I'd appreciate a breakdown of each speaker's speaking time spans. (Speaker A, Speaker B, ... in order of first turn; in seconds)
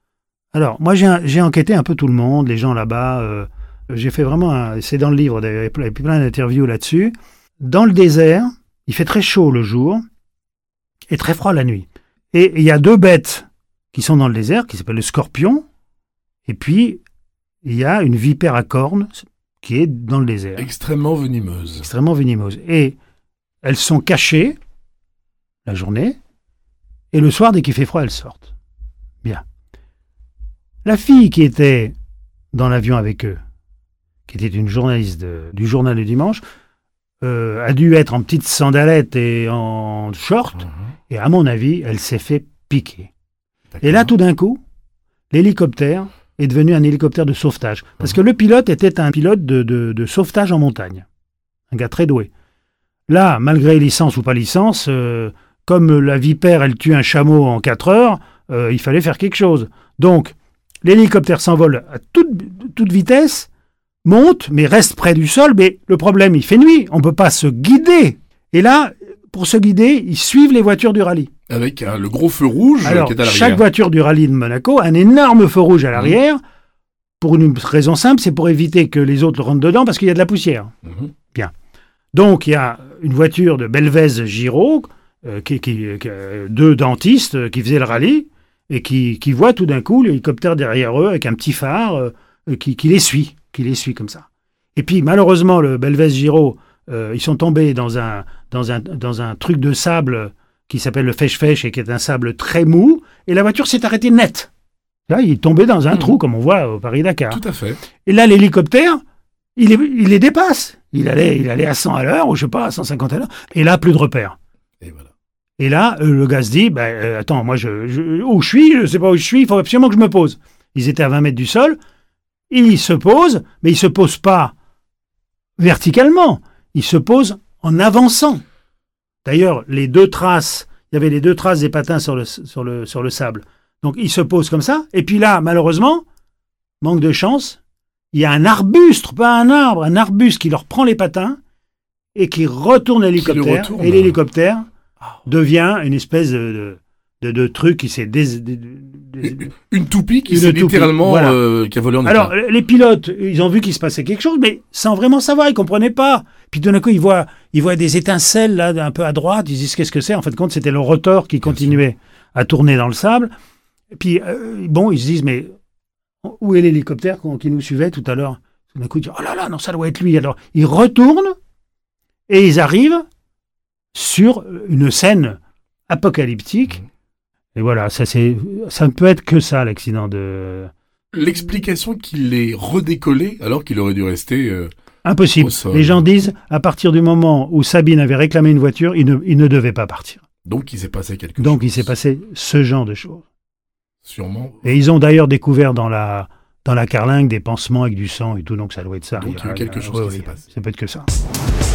Speaker A: 0.5-10.0, 11.1-15.7, 16.4-17.0, 17.6-20.7, 21.8-23.0, 23.6-24.6, 25.7-26.2, 27.1-28.5, 30.8-31.9, 32.5-33.4, 34.3-36.4, 37.2-43.1, 43.8-44.6, 45.3-51.1, 51.7-52.3, 53.1-63.5, 64.0-71.3, 72.8-76.4, 77.2-80.7, 82.1-104.5, 105.1-107.4, 108.0-109.0, 109.6-114.4, 115.6-121.8, 122.5-124.5, 125.6-128.4, 129.2-136.0, 136.8-137.6, 138.1-141.4, 142.2-144.7, 145.3-149.5, 150.3-151.4, 152.1-163.3, 163.9-165.5, 166.2-171.3, 172.3-173.1, 173.9-176.8, 177.6-180.7, 185.0-190.2, 191.4-193.3, 194.6-201.1
Speaker B: 20.6-21.9, 43.7-44.1, 71.5-73.6, 107.3-107.8, 114.8-115.1, 143.2-144.1, 149.2-152.3, 161.5-161.8, 181.1-184.7, 185.4-186.0, 190.5-191.8, 194.0-194.7, 199.2-200.4